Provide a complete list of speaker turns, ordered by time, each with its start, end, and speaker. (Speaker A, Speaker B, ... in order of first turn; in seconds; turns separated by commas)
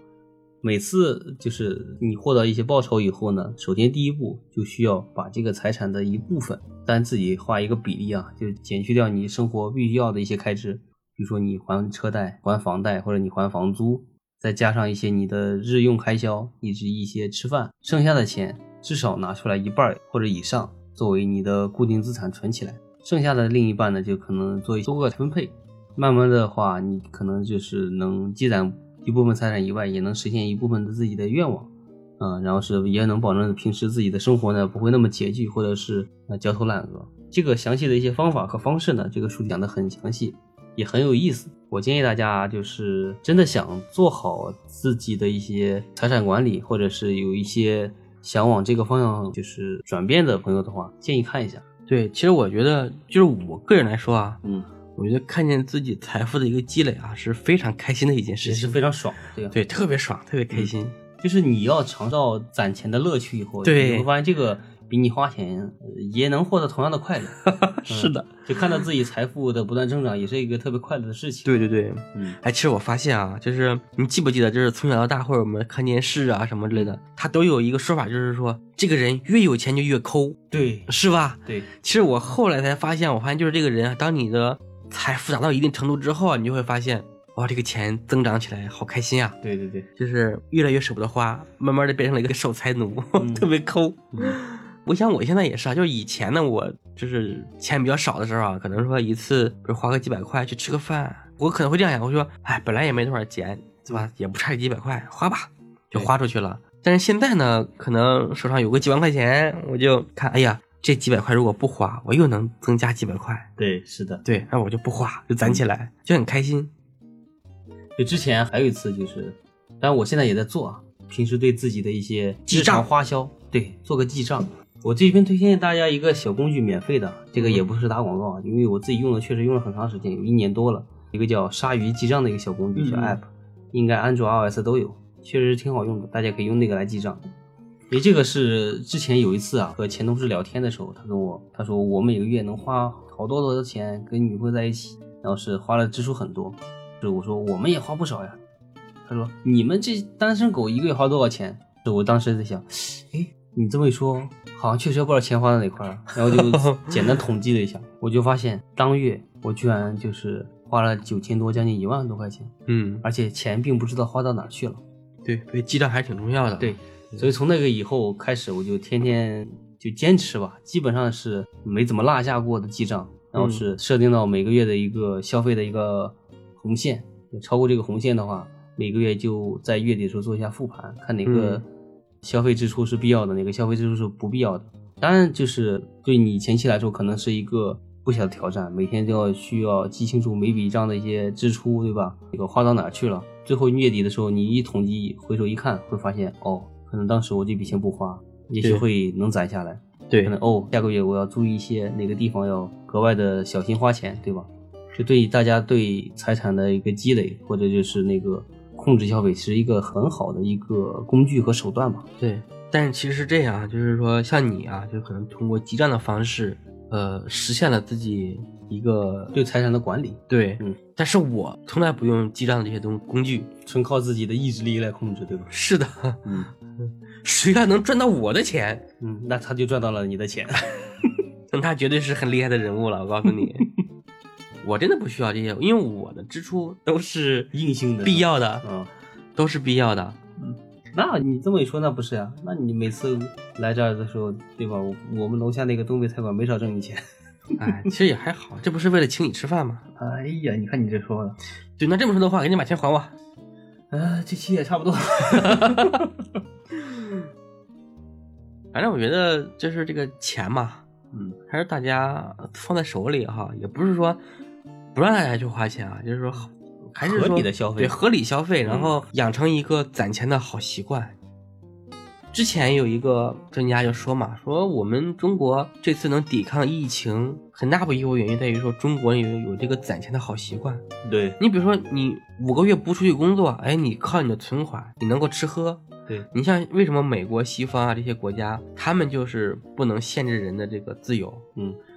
Speaker A: 0.6-51.6, Speaker B: 51.9-54.4, Speaker B: 55.0-58.8, Speaker A: 58.4-59.6, Speaker B: 59.5-61.0, Speaker A: 60.5-71.5, Speaker B: 63.6-64.1, Speaker B: 67.4-68.8, Speaker B: 71.5-89.4, Speaker A: 80.5-80.9, Speaker A: 89.4-89.9, Speaker B: 90.0-113.5, Speaker A: 93.2-93.5, Speaker A: 94.1-94.4, Speaker A: 113.6-114.2, Speaker B: 114.2-116.7, Speaker A: 118.0-137.2, Speaker B: 122.5-122.9, Speaker B: 127.4-127.6, Speaker B: 132.8-133.2, Speaker A: 137.9-148.4, Speaker A: 149.1-164.8, Speaker B: 156.3-157.2, Speaker B: 162.7-163.1, Speaker B: 165.2-167.3, Speaker A: 166.6-181.7, Speaker B: 173.4-173.6, Speaker B: 181.2-181.6, Speaker A: 182.2-212.1, Speaker B: 198.6-198.8, Speaker B: 212.2-219.3, Speaker A: 219.3-220.8, Speaker B: 220.3-223.5, Speaker A: 223.7-225.5, Speaker B: 225.5-228.8, Speaker A: 226.2-226.5, Speaker A: 229.0-230.7, Speaker B: 231.5-233.7, Speaker B: 234.6-237.5, Speaker A: 237.5-238.9, Speaker B: 238.0-238.7, Speaker B: 239.4-240.2, Speaker A: 240.4-247.0, Speaker B: 247.6-249.8, Speaker A: 250.0-251.4, Speaker B: 251.8-253.1, Speaker A: 253.9-256.1, Speaker B: 255.4-255.9, Speaker B: 258.7-260.8, Speaker B: 261.5-264.2, Speaker B: 264.9-271.2, Speaker A: 266.9-268.0, Speaker A: 268.6-268.9, Speaker B: 272.3-280.8, Speaker A: 281.0-281.4, Speaker B: 281.4-291.4